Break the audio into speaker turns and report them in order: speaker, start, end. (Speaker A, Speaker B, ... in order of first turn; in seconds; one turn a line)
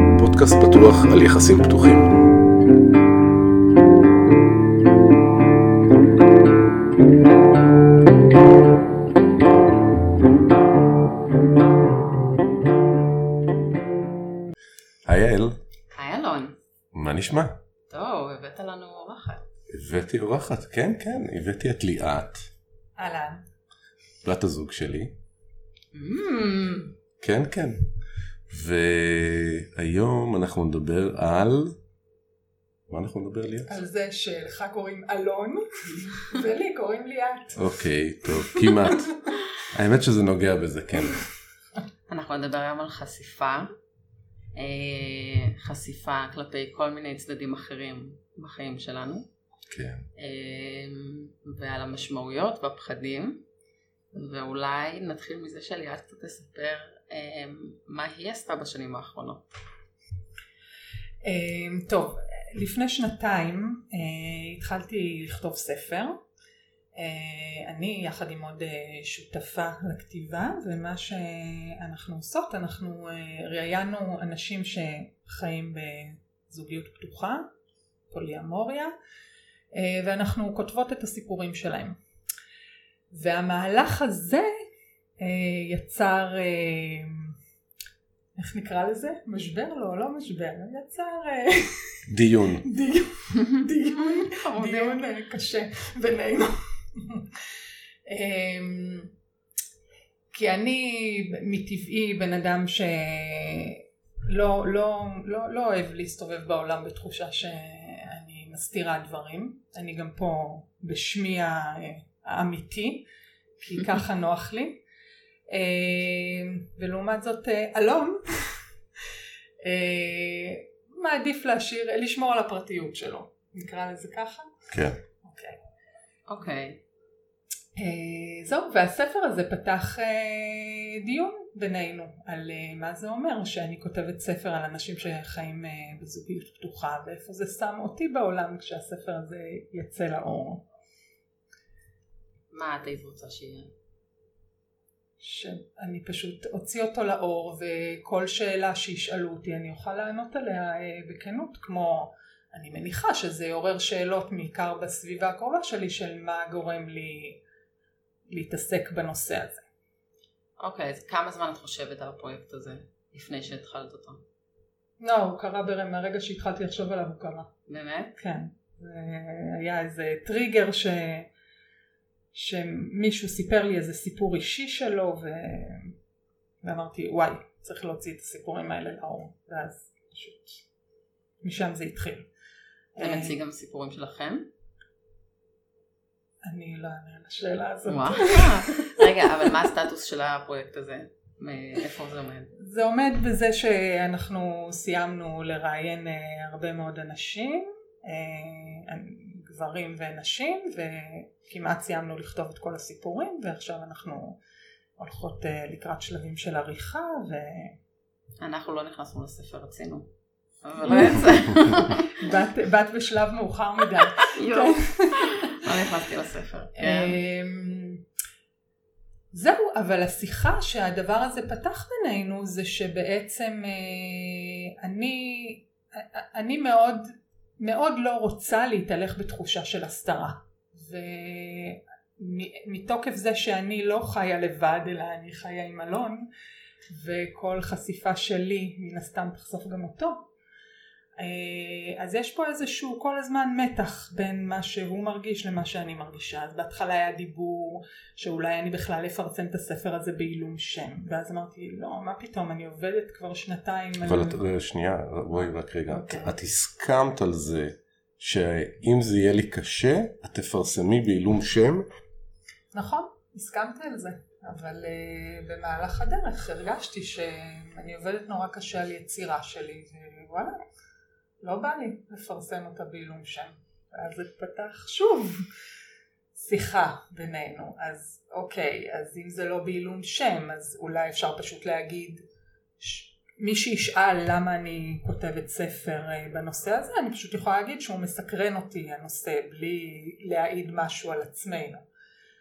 Speaker A: 0.1-2.2
Speaker A: 15.0-15.6
Speaker B: 15.9-16.6
Speaker A: 16.9-17.6
Speaker B: 17.9-19.4
Speaker A: 19.7-22.4
Speaker C: 23.0-23.4
Speaker A: 24.2-25.1
Speaker B: 25.9-26.9
Speaker A: 27.2-27.8
Speaker A: 28.5-31.8
Speaker A: 32.9-33.7
Speaker C: 33.7-37.7
Speaker A: 37.5-39.1
Speaker C: 38.2-39.3
Speaker A: 39.7-41.2
Speaker B: 42.1-43.7
Speaker B: 44.5-49.2
Speaker A: 49.7-50.0
Speaker B: 50.2-53.4
Speaker B: 54.1-59.5
Speaker C: 61.2-66.2
Speaker C: 67.0-77.5
Speaker C: 78.1-78.9
Speaker C: 79.7-82.0
Speaker C: 83.1-84.5
Speaker C: 85.2-87.3
Speaker C: 88.3-92.1
Speaker A: 92.1-92.6
Speaker C: 92.6-97.3
Speaker B: 93.4-95.0
Speaker C: 98.1-99.1
Speaker C: 100.3-113.1
Speaker C: 113.6-114.8
Speaker C: 115.5-118.6
Speaker C: 119.6-124.5
Speaker A: 124.7-125.0
Speaker C: 125.2-125.6
Speaker B: 126.3-126.8
Speaker C: 127.8-140.6
Speaker B: 142.5-143.7
Speaker C: 145.2-157.4
Speaker C: 158.3-159.6
Speaker B: 160.6-164.2
Speaker C: 165.0-167.5
Speaker B: 167.7-168.1
Speaker C: 168.2-171.3
Speaker C: 172.3-175.9
Speaker C: 176.6-180.6
Speaker C: 181.4-182.3
Speaker C: 182.9-183.3
Speaker B: 183.0-184.5
Speaker C: 186.4-189.5
Speaker B: 187.8-192.5
Speaker C: 192.6-204.4
Speaker C: 205.0-207.8
Speaker B: 208.4-210.1
Speaker B: 210.6-212.2
Speaker C: 210.8-211.3
Speaker C: 211.9-215.6
Speaker B: 214.2-217.2
Speaker C: 216.8-218.0
Speaker C: 219.3-236.3
Speaker C: 236.9-240.3
Speaker C: 241.2-254.4
Speaker A: 254.0-261.9
Speaker C: 255.9-256.3
Speaker C: 262.7-270.6
Speaker C: 271.4-275.4
Speaker C: 276.3-282.2
Speaker C: 282.8-291.8